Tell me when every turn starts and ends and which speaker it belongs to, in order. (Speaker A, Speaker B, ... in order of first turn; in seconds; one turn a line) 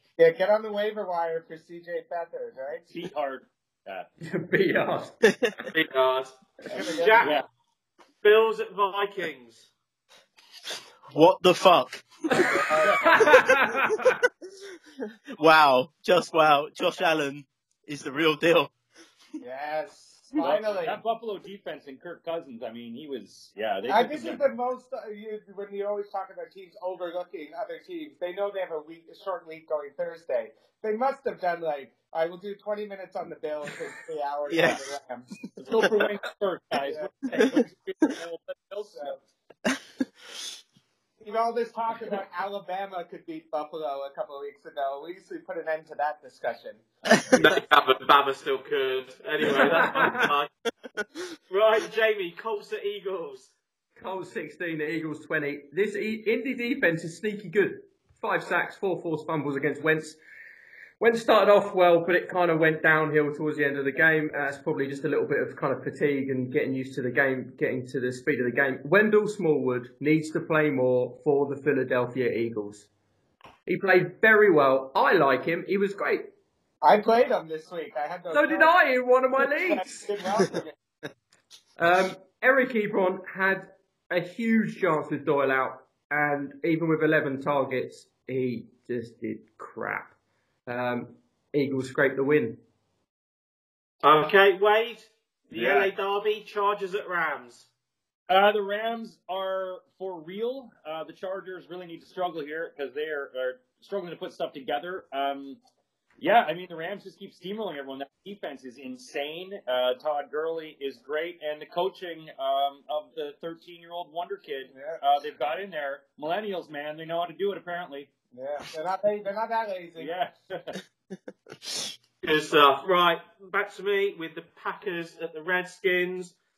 Speaker A: 0.2-2.9
Speaker B: 2.9-4.1
Speaker C: 4.2-5.2
Speaker D: 5.7-7.4
Speaker A: 6.7-7.3
Speaker D: 8.2-9.7
Speaker E: 11.1-12.1
Speaker C: 12.3-14.2
Speaker A: 12.5-13.4
Speaker B: 12.8-13.1
Speaker E: 15.4-18.7
Speaker A: 19.4-21.0
Speaker B: 20.4-24.4
Speaker A: 23.9-35.3
Speaker E: 34.5-34.8
Speaker B: 35.6-39.2
Speaker A: 36.8-37.6
Speaker A: 41.2-46.8
Speaker D: 47.4-50.5
Speaker C: 49.5-50.3
Speaker D: 51.5-53.5
Speaker C: 54.0-60.2
Speaker C: 61.0-72.9
Speaker C: 73.7-76.3
Speaker A: 76.8-78.7
Speaker C: 78.3-80.1
Speaker A: 79.4-80.7
Speaker C: 81.8-90.1
Speaker C: 90.7-92.6
Speaker D: 94.0-97.7
Speaker B: 95.5-95.9
Speaker B: 98.3-105.6
Speaker B: 106.2-118.1
Speaker A: 114.7-115.0
Speaker A: 118.3-120.1
Speaker B: 120.0-120.8
Speaker D: 122.2-126.3